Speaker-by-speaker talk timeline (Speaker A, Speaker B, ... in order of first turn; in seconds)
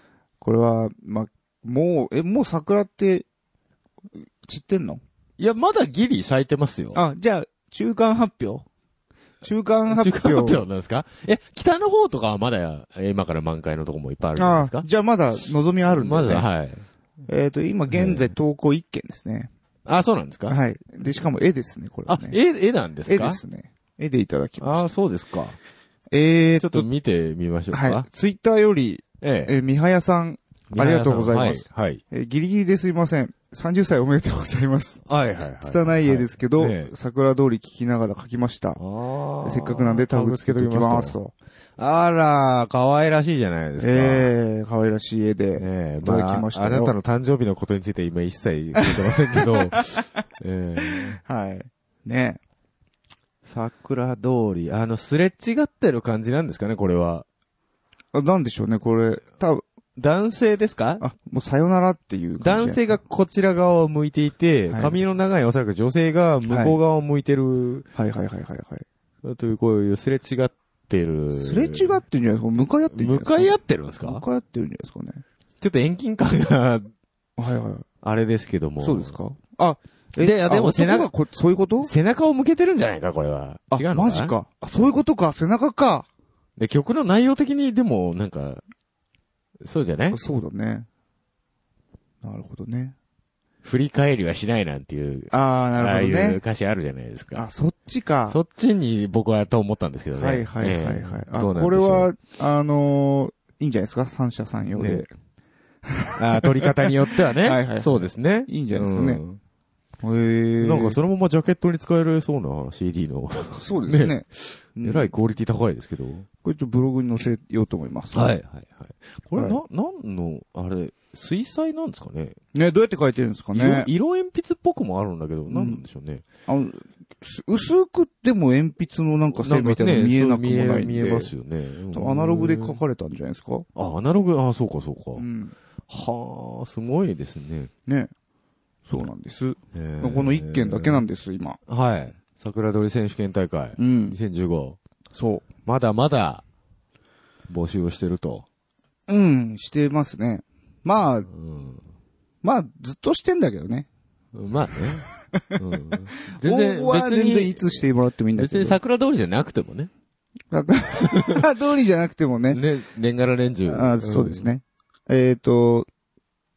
Speaker A: 0.4-3.2, 4.4-5.0, 6.9-8.7, 9.4-10.6, 14.3-16.5, 17.3-19.5, 20.5-22.4, 23.1-24.9, 26.1-26.9, 27.7-35.0, 35.6-38.8, 39.4-41.3, 43.8-46.9, 48.8-49.5, 50.9-52.4, 58.1-59.6, 61.0-63.0, 64.7-65.0, 66.5-66.8, 67.9-68.8, 71.3-75.2, 77.4-77.8, 78.8-81.9, 83.7-86.1, 90.1-90.9, 92.2-92.9, 95.3-96.4, 97.3-98.4, 100.2-105.1, 105.8-109.2, 110.0-111.0, 113.5-114.2, 114.8-115.1, 116.4-118.3, 122.5-123.9, 125.5-125.8, 126.5-131.3, 131.9-133.7, 135.2-135.5, 138.9-141.6, 143.8-144.2, 145.1-145.5, 149.1-151.3, 152.4-153.9, 155.3-155.6, 156.3-158.8, 160.5-162.6, 163.7-165.9
Speaker B: 5.4-7.0, 9.9-14.8, 15.9-16.8, 17.9-18.3, 19.9-20.6, 22.1-23.4, 24.6-25.6, 26.6-28.1, 29.2-29.5, 30.7-32.0, 35.0-36.9, 38.8-41.2, 41.8-44.3, 45.6-51.2, 53.4-57.2, 60.0-61.0, 62.4-67.8, 69.2-72.0, 72.9-74.2, 75.6-76.9, 78.0-79.1, 80.2-81.1, 81.8-84.3, 86.6-88.6, 89.6-90.2, 93.6-97.5, 98.3-102.1, 104.7-105.0, 106.1-109.4, 110.6-116.3, 118.1-122.4, 123.5-126.2, 129.4-132.8, 133.7-135.2, 135.9-137.7, 139.7-141.0, 141.7-144.8, 145.6-146.4, 147.5-148.4, 151.3-151.8, 154.3-157.8, 158.3-159.9, 161.0-161.5, 162.5-164.5